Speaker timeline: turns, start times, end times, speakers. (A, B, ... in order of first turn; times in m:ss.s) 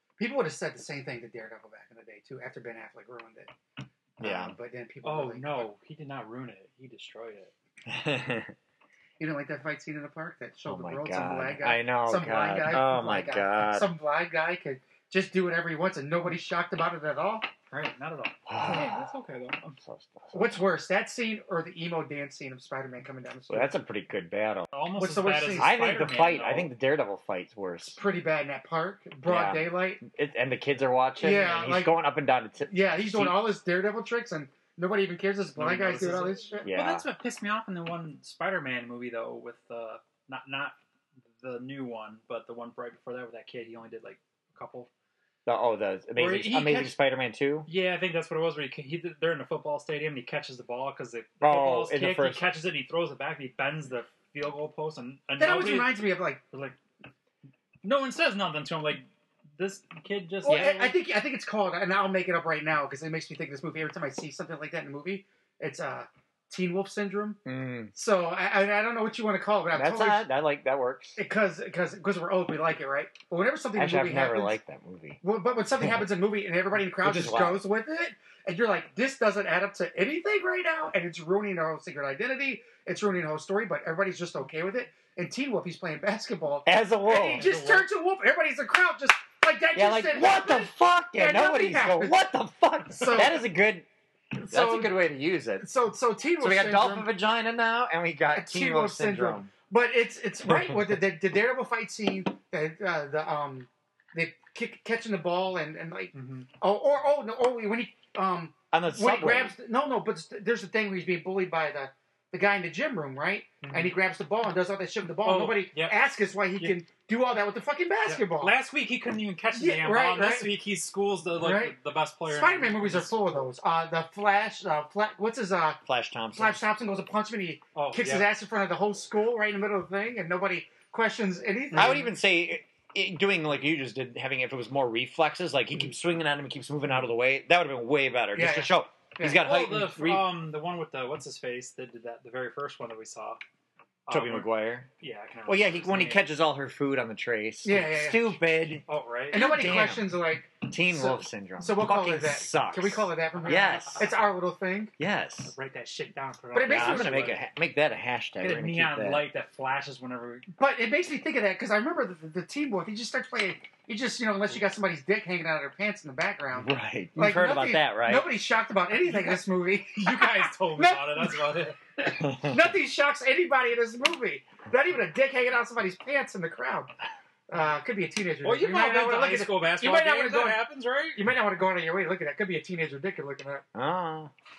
0:00.2-0:03.5 A
0:04.2-0:04.5 B
0:04.2-0:05.7 A
0:05.0-0:07.5 C
0:07.8-0:08.5 B
0:09.2-0:17.5 A
0:10.6-0:13.9 B
0:17.7-0:19.8 C
0:18.5-0:19.0 B
0:19.8-0:20.6 B
0:20.3-0:23.8 A
0:23.5-0:24.7 B
0:24.7-0:26.7 C
0:25.0-0:25.8 A
0:25.5-0:28.0 B
0:27.9-0:30.0 A
0:29.2-0:33.5 B
0:31.2-0:31.9 A
0:32.7-0:36.7 A
0:35.6-0:40.8 C
0:36.6-0:37.0 B
0:41.4-0:44.9 C
0:45.4-0:47.7 B
0:46.2-0:47.0 C
0:47.7-0:56.8 C
0:51.4-0:52.4 B
0:55.4-0:56.4 A
0:57.8-1:01.0 C
1:00.4-1:07.4 A
1:07.4-1:07.9 B
1:07.9-1:10.3 A
1:09.7-1:11.2 B
1:11.2-1:14.6 A
1:13.8-1:15.2 B
1:15.2-1:32.2 A
1:17.0-1:17.6 B
1:26.6-1:27.5 B
1:27.4-1:27.9 C
1:29.8-1:33.9 B
1:32.9-1:33.4 A
1:34.3-1:35.0 A
1:34.5-1:35.7 B
1:35.6-1:37.1 A
1:36.4-1:39.5 B
1:38.3-1:58.6 A
1:46.1-1:46.5 C
1:48.7-1:49.5 B
1:53.6-1:53.9 C
1:55.2-1:56.1 C
1:58.0-2:03.5 C
1:59.5-2:00.5 A
2:01.4-2:01.8 A
2:02.3-2:05.8 A
2:05.8-2:06.6 B
2:06.3-2:12.1 A
2:07.8-2:08.3 C
2:11.7-2:20.3 B
2:18.3-2:19.4 A
2:19.4-2:23.4 C
2:24.1-2:26.2 C
2:24.1-2:24.9 B
2:25.5-2:30.1 B
2:27.6-2:28.4 A
2:28.9-2:29.5 C
2:29.3-2:34.9 A
2:30.6-2:34.1 B
2:33.4-2:34.3 C
2:35.0-2:35.5 B
2:35.5-2:37.4 C
2:36.5-2:37.2 A
2:36.7-2:39.3 B
2:38.4-2:40.5 C
2:40.6-2:51.5 A
2:46.6-2:48.3 B
2:48.9-2:52.2 C
2:52.3-2:52.5 B
2:52.4-2:56.9 A
2:57.5-3:03.6 A
2:58.4-3:01.2 C
3:03.8-3:04.3 B